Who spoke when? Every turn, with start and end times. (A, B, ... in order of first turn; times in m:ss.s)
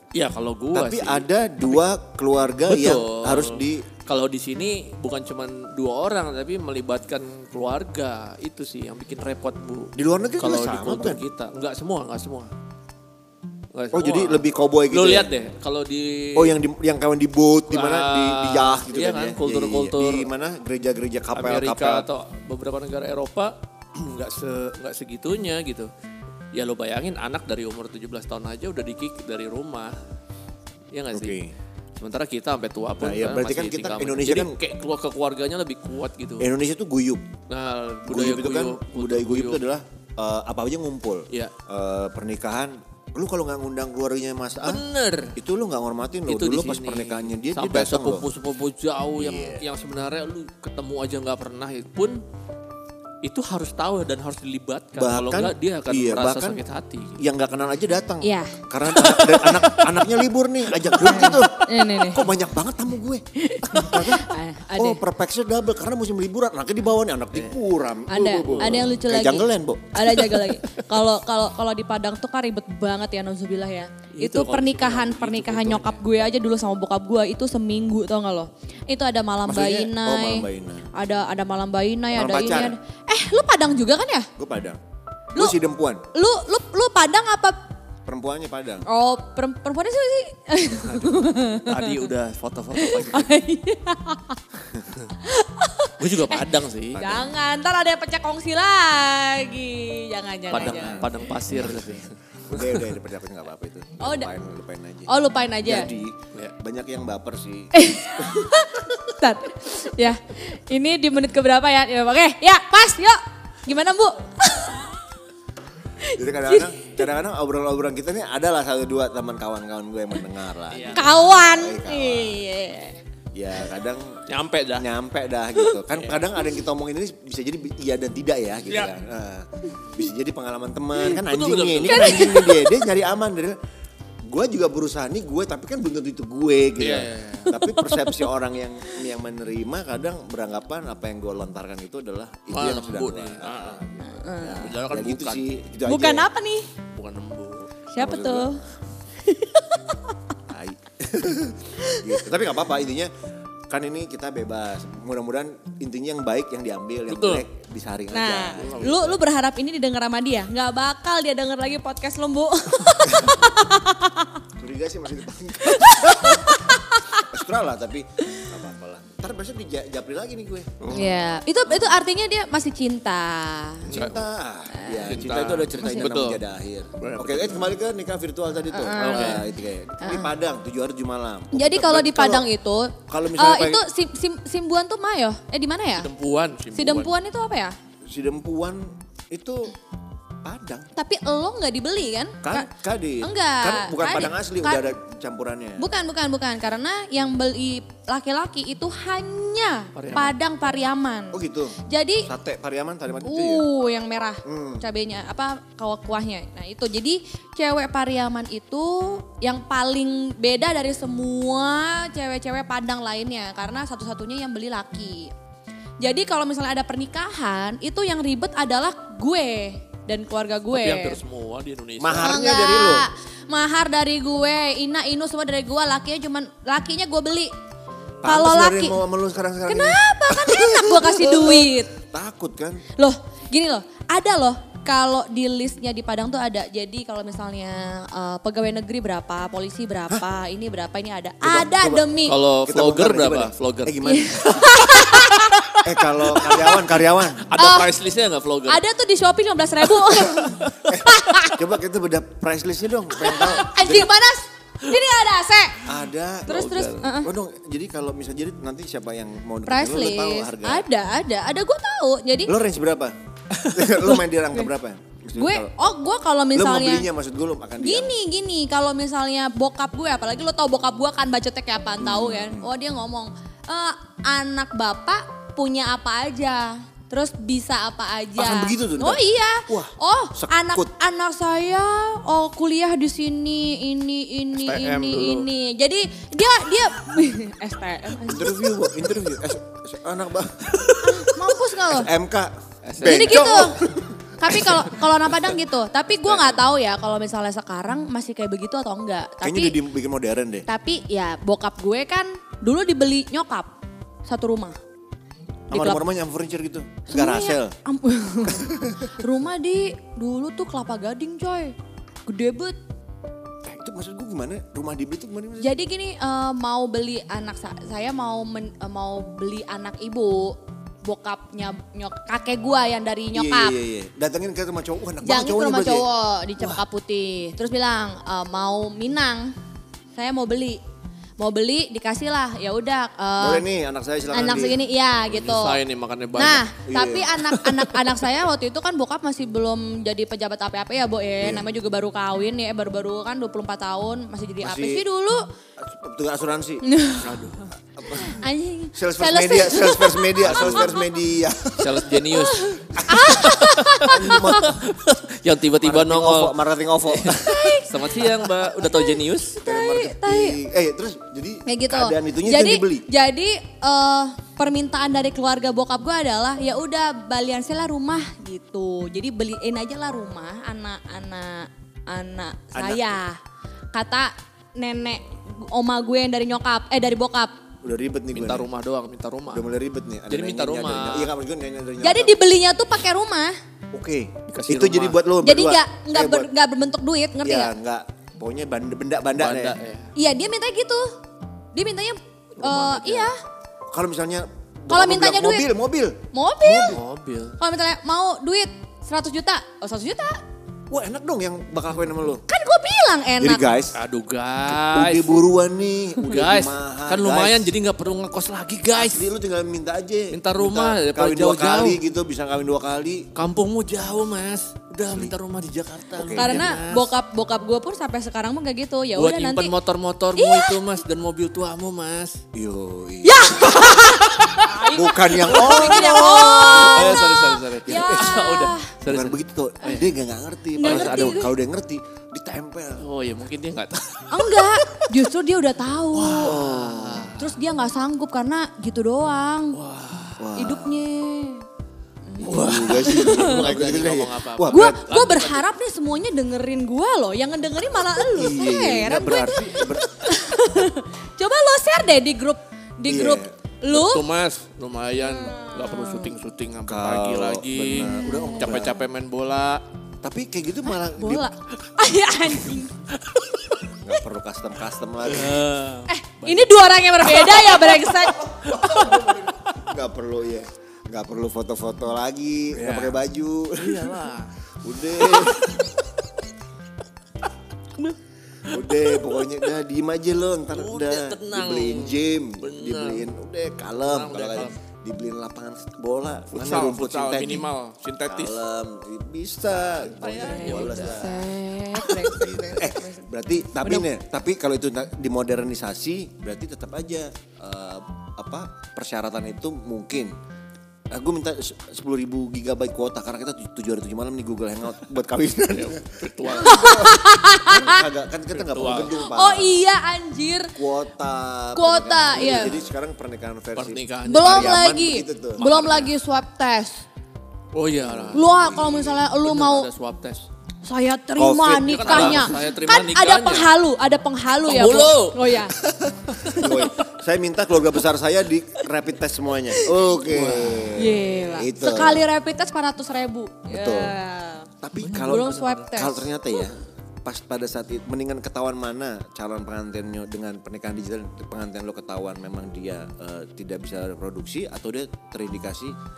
0:00.1-0:01.8 A
0:00.7-0:03.9 B
0:02.7-0:12.5 A
0:10.0-0:11.2 B
0:13.7-0:16.6 A
0:13.9-0:15.3 B
0:16.4-0:22.1 B
0:17.7-0:20.3 A
0:21.3-0:25.9 A
0:26.5-0:30.0 A
0:30.9-0:31.4 A
0:31.1-0:31.5 B
0:32.0-0:36.5 A
0:33.0-0:34.6 B
0:36.4-0:37.2 B
0:37.5-0:39.6 A
0:38.1-0:44.8 B
0:44.6-0:45.4 A
0:45.4-0:48.2 B
0:46.3-0:52.2 A
0:49.1-0:49.6 B
0:53.2-0:57.2 A
0:55.0-0:56.6 B
0:57.2-1:10.2 B
0:58.2-0:59.4 C
0:59.0-0:59.8 A
1:01.0-1:02.3 C
1:03.4-1:05.0 C
1:08.1-1:24.3 C
1:08.5-1:08.9 A
1:10.2-1:10.8 A
1:14.1-1:16.0 A
1:19.4-1:20.9 B
1:22.1-1:22.8 B
1:24.4-1:24.8 B
1:25.3-1:26.0 B
1:26.1-1:27.6 C
1:28.0-1:28.8 B
1:28.8-1:32.0 C
1:30.8-1:33.3 A
1:32.8-1:34.4 C
1:35.2-1:41.2 C
1:36.0-1:37.3 A
1:40.5-1:42.9 A
1:40.5-1:41.9 B
1:42.5-1:45.1 B
1:44.0-1:44.3 C
1:45.1-1:45.9 C
1:45.6-1:48.6 B
1:47.7-1:55.0 C
1:56.0-1:57.0 C
1:56.1-2:02.4 B
2:00.7-2:01.1 A
2:00.9-2:03.0 C
2:03.3-2:04.2 B
2:04.3-2:04.9 A
2:04.8-2:13.6 B
2:05.9-2:06.2 A
2:11.0-2:12.4 A
2:11.8-2:12.8 C
2:14.2-2:26.3 B
2:16.8-2:17.6 A
2:17.6-2:18.2 C
2:22.5-2:23.8 A
2:24.0-2:24.7 C
2:24.4-2:25.5 A
2:25.8-2:26.7 C
2:26.9-2:27.7 A
2:27.9-2:28.6 C
2:28.0-2:28.5 B
2:29.2-2:30.2 C
2:30.5-2:33.1 B
2:31.8-2:32.2 C
2:33.7-2:39.2 B
2:37.1-2:37.4 A
2:38.1-2:44.4 C
2:38.5-2:39.1 A
2:43.1-2:43.4 B
2:44.6-2:50.9 B
2:45.6-2:47.3 C
2:50.8-2:51.2 A
2:50.9-2:53.9 C
2:53.9-2:54.3 A
2:53.9-3:02.5 B
2:54.7-2:55.1 C
2:55.0-2:56.4 A
2:55.8-2:56.0 C
2:57.0-2:57.7 A
2:58.7-2:59.4 C
2:58.9-2:59.4 A
3:00.0-3:00.3 C
3:01.5-3:06.1 C
3:03.1-3:03.8 B
3:05.9-3:07.1 A
3:06.7-3:07.7 C
3:08.1-3:09.7 B
3:10.4-3:10.9 B
3:10.9-3:12.7 C
3:12.4-3:15.9 B
3:13.2-3:14.9 C
3:15.8-3:22.3 C
3:19.9-3:20.4 A
3:21.3-3:23.6 B
3:23.2-3:35.3 C
3:24.4-3:24.8 B
3:36.0-3:41.2 C
3:40.7-3:42.4 A
3:42.0-3:43.1 B
3:42.2-3:47.5 C
3:48.2-3:52.8 B
3:48.2-3:49.0 C
3:49.7-3:51.9 C
3:53.0-4:02.4 C
4:01.4-4:05.1 B
4:02.2-4:04.0 A
4:04.0-4:06.8 C
4:05.8-4:07.5 B
4:07.4-4:08.8 A
4:07.6-4:07.9 C
4:08.7-4:11.6 C
4:10.8-4:14.1 B
4:13.2-4:15.9 C
4:15.8-4:20.8 B
4:16.5-4:17.3 C
4:16.5-4:17.0 A
4:19.6-4:22.5 C
4:22.4-4:23.1 B
4:23.7-4:25.7 B
4:25.4-4:27.1 C
4:26.5-4:28.1 B
4:27.8-4:48.7 C
4:32.0-4:32.7 B
4:38.4-4:40.9 B
4:44.6-4:45.5 A
4:48.2-4:55.0 B
4:51.0-4:52.1 C
4:52.8-4:53.8 A
4:53.0-4:53.8 C
4:54.4-4:59.8 C
4:56.3-4:56.6 B
4:59.4-5:00.7 B
5:00.6-5:03.7 C
5:04.2-5:04.8 C
5:05.7-5:06.0 C
5:05.7-5:07.7 B
5:07.1-5:11.7 C
5:08.5-5:09.2 B
5:12.3-5:12.8 C
5:13.6-5:15.7 B
5:15.6-5:23.8 C
5:23.3-5:26.0 B
5:25.2-5:29.5 C
5:30.1-5:30.8 C
5:31.4-5:33.6 C
5:33.4-5:34.8 B
5:34.3-5:35.8 C
5:35.3-5:36.7 A
5:36.4-5:45.4 C
5:36.9-5:37.4 B
5:37.5-5:38.0 A
5:41.4-5:41.7 B
5:44.6-5:45.0 B
5:45.8-5:46.8 B
5:46.8-5:47.4 C
5:47.2-5:47.6 A
5:47.8-5:48.4 B
5:48.1-5:51.1 C
5:48.9-5:52.2 B
5:50.4-5:51.0 A
5:51.8-5:59.6 A
5:52.3-5:54.7 C
5:53.0-5:53.4 B
5:54.0-5:54.7 B
5:55.8-5:57.7 B
5:57.4-6:00.6 C
5:59.6-6:03.1 B
6:01.6-6:13.4 C
6:12.7-6:13.2 B
6:13.9-6:17.6 C
6:17.8-6:18.7 B
6:18.3-6:19.7 A
6:19.5-6:22.4 B
6:20.3-6:21.3 A
6:22.0-6:23.6 C
6:23.9-6:26.5 B
6:24.5-6:25.2 A
6:25.4-6:27.7 C
6:27.4-6:29.8 B
6:29.4-6:30.1 A
6:30.2-6:31.1 C
6:31.7-6:33.4 C
6:32.6-6:33.3 A
6:33.9-6:37.0 B
6:34.9-6:35.7 C
6:36.3-6:37.0 C
6:36.9-6:37.6 A
6:37.6-6:40.4 C
6:40.9-6:42.4 B
6:42.5-6:43.7 C
6:43.4-6:44.0 B
6:43.9-6:45.4 A
6:44.7-6:47.7 B
6:46.2-6:49.3 A
6:48.9-6:53.3 B
6:50.3-6:52.0 A
6:53.4-6:57.1 A
6:55.1-6:55.3 B
6:56.1-6:56.7 B
6:56.4-6:59.7 C
6:59.1-7:02.4 A
7:00.4-7:00.8 C
7:02.5-7:08.4 B
7:03.2-7:08.9 C
7:05.5-7:10.1 A
7:09.0-7:13.0 B
7:10.8-7:11.5 C
7:10.8-7:11.4 A
7:13.0-7:15.1 A
7:14.3-7:16.7 C
7:16.1-7:17.5 A
7:16.4-7:17.4 B
7:17.4-7:19.8 C
7:19.7-7:20.5 A
7:20.4-7:21.0 B
7:20.6-7:21.6 C
7:22.2-7:23.6 C
7:22.4-7:25.0 B
7:22.4-7:25.6 A
7:24.7-7:34.2 C
7:28.3-7:30.3 B
7:33.0-7:33.5 B
7:33.9-7:39.8 A
7:35.2-7:36.3 C
7:36.9-7:39.0 B
7:38.0-7:38.8 C
7:40.2-7:41.5 B
7:41.2-7:43.0 C
7:42.7-7:43.9 A
7:44.0-7:45.7 B
7:45.2-7:46.7 A
7:46.1-7:49.1 C
7:47.4-7:47.9 A
7:48.3-7:54.3 B
7:52.7-7:53.2 A
7:53.8-7:54.5 A
7:54.8-7:55.8 B
7:55.2-7:55.9 A
7:58.6-8:07.6 B
8:00.7-8:03.3 A
8:04.0-8:04.7 A
8:06.5-8:08.6 A
8:08.2-8:11.5 B
8:09.8-8:11.4 A
8:10.4-8:13.3 C
8:12.0-8:20.4 B
8:13.8-8:14.1 C
8:21.1-8:29.7 B
8:25.7-8:27.0 A
8:26.6-8:28.0 C
8:28.5-8:29.2 A
8:29.2-8:30.7 C
8:30.8-8:35.6 B
8:31.7-8:32.8 C
8:32.4-8:32.7 A
8:33.7-8:34.7 A
8:34.2-8:37.0 C
8:35.6-8:36.1 A
8:37.7-8:38.5 A
8:38.0-8:39.2 B
8:38.3-8:39.9 C
8:39.4-8:40.5 A
8:40.8-8:45.8 C
8:41.4-8:42.6 B
8:41.8-8:43.7 A
8:44.6-8:47.0 A
8:46.4-8:52.2 B
8:50.1-8:51.4 A
8:50.9-8:56.6 C
8:53.7-8:54.1 B
8:54.8-9:05.9 B
8:55.0-8:55.9 A